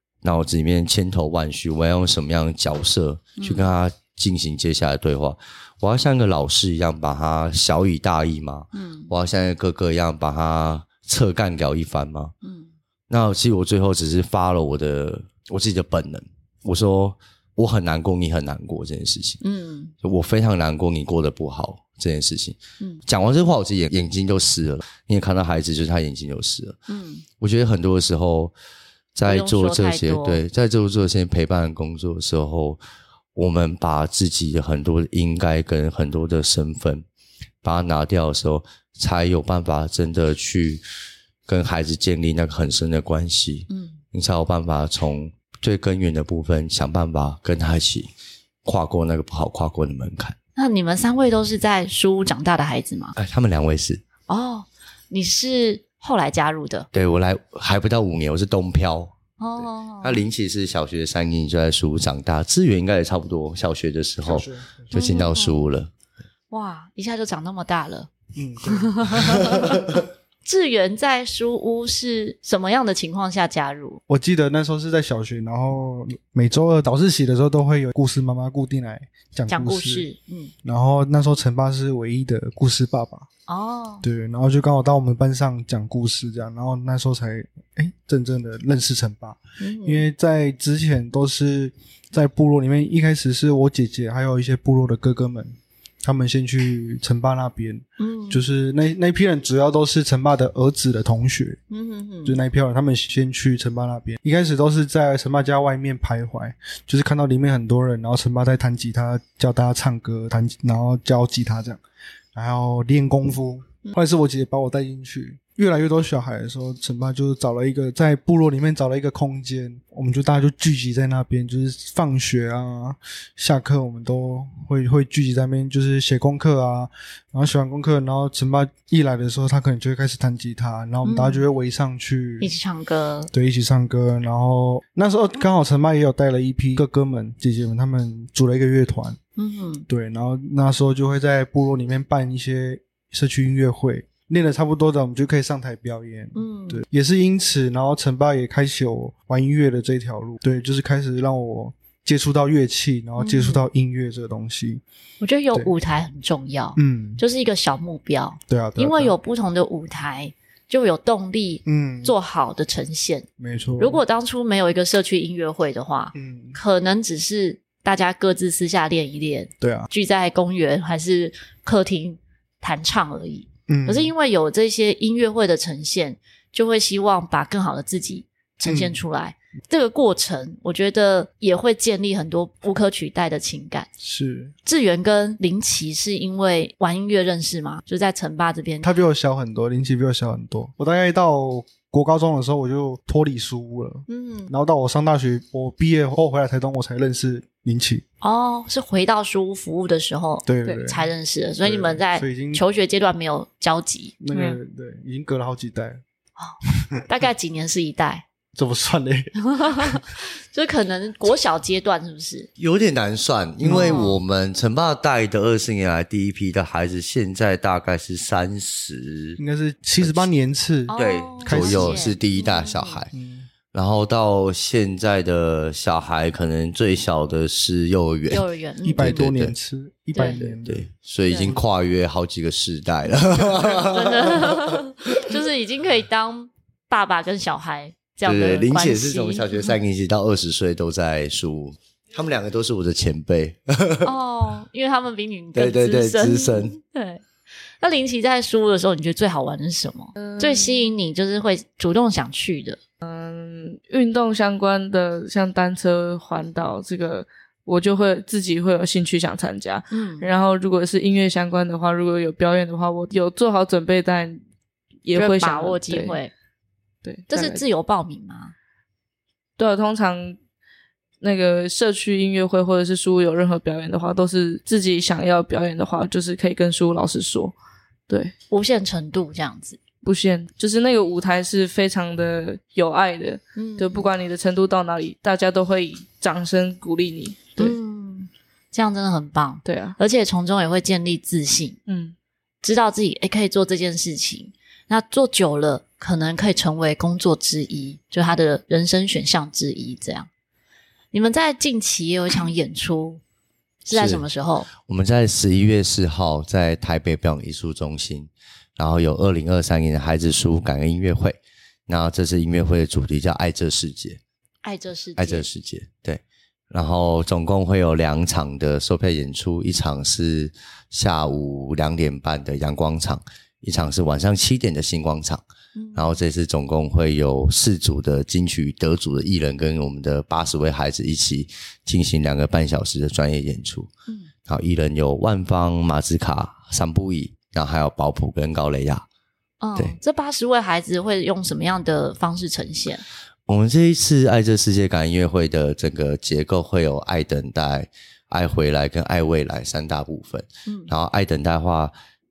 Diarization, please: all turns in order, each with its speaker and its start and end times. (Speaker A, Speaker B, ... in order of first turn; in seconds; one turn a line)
Speaker A: 0.2-12.3
Speaker B: 3.4-3.7
Speaker B: 8.7-9.1
Speaker B: 12.4-12.7
Speaker A: 13.1-19.4
Speaker B: 19.4-19.9
Speaker A: 20.0-26.8
Speaker B: 26.9-27.2
Speaker A: 27.4-28.5
Speaker A: 29.1-32.8
Speaker B: 29.3-30.4
Speaker A: 33.4-37.0
Speaker A: 37.6-40.8
Speaker A: 41.5-48.1
Speaker B: 43.7-44.0
Speaker A: 48.6-50.4
Speaker B: 50.6-53.1
Speaker A: 53.2-54.0
Speaker B: 54.3-56.9
Speaker A: 56.9-59.1
Speaker B: 59.4-60.2
Speaker A: 60.0-65.9
Speaker C: 64.2-65.0
Speaker B: 64.9-65.6
Speaker B: 66.5-68.1
Speaker C: 68.3-69.8
Speaker B: 68.7-69.8
Speaker B: 70.5-74.0
Speaker C: 74.1-80.1
Speaker B: 79.5-80.5
Speaker C: 80.6-83.3
Speaker B: 83.5-84.0
Speaker C: 84.0-101.6
Speaker B: 89.6-90.0
Speaker B: 98.0-98.4
Speaker B: 101.7-102.4
Speaker C: 102.2-111.8
Speaker C: 112.3-132.5
Speaker B: 131.0-131.4
Speaker B: 132.4-133.3
Speaker C: 133.3-139.2
Speaker B: 139.4-139.9
Speaker C: 139.9-154.8
Speaker B: 146.3-146.8
Speaker B: 153.2-153.6
Speaker B: 155.2-163.3
Speaker C: 156.8-157.2
Speaker C: 158.5-159.1
Speaker C: 161.7-162.2
Speaker C: 163.4-164.0
Speaker B: 163.8-183.9
Speaker C: 166.2-166.6
Speaker C: 169.6-169.9
Speaker C: 173.7-174.1
Speaker C: 178.7-179.0
Speaker C: 184.0-184.5
Speaker B: 184.7-188.9
Speaker C: 188.8-198.0
Speaker B: 194.1-194.5
Speaker B: 198.2-204.2
Speaker C: 200.5-201.1
Speaker D: 200.7-200.9
Speaker C: 201.6-202.6
Speaker C: 204.2-206.0
Speaker D: 204.3-204.6
Speaker B: 206.4-208.2
Speaker C: 208.6-210.0
Speaker B: 209.5-212.5
Speaker A: 212.6-219.4
Speaker C: 213.6-214.1
Speaker B: 213.7-214.2
Speaker C: 219.4-222.2
Speaker A: 220.0-220.3
Speaker B: 220.9-223.0
Speaker A: 220.9-223.1
Speaker C: 223.1-223.5
Speaker A: 223.7-228.4
Speaker B: 228.3-229.3
Speaker C: 228.8-230.9
Speaker A: 229.0-229.5
Speaker B: 230.1-230.4
Speaker A: 230.2-234.8
Speaker B: 231.3-231.6
Speaker C: 233.4-233.7
Speaker B: 233.7-239.8
Speaker A: 238.2-244.1
Speaker B: 244.0-247.2
Speaker A: 245.6-246.8
Speaker B: 247.8-252.8
Speaker D: 250.2-250.9
Speaker D: 253.0-264.4
Speaker B: 259.9-260.3
Speaker D: 265.0-266.2
Speaker B: 265.1-266.3
Speaker D: 267.0-267.6
Speaker B: 267.3-268.5
Speaker D: 269.6-270.4
Speaker D: 271.2-277.5
Speaker B: 278.5-279.8
Speaker D: 280.0-287.8
Speaker B: 283.6-284.1
Speaker B: 287.6-291.8
Speaker D: 289.6-290.0
Speaker D: 291.9-292.1
Speaker B: 292.6-300.3
Speaker B: 301.1-303.2
Speaker B: 303.9-304.7
Speaker A: 303.9-304.2
Speaker A: 304.8-314.2
Speaker B: 314.6-315.4
Speaker A: 315.2-325.4
Speaker B: 325.8-326.2
Speaker A: 325.9-333.9
Speaker A: 334.5-339.1
Speaker B: 339.6-343.0
Speaker A: 343.5-351.9
Speaker B: 350.7-350.9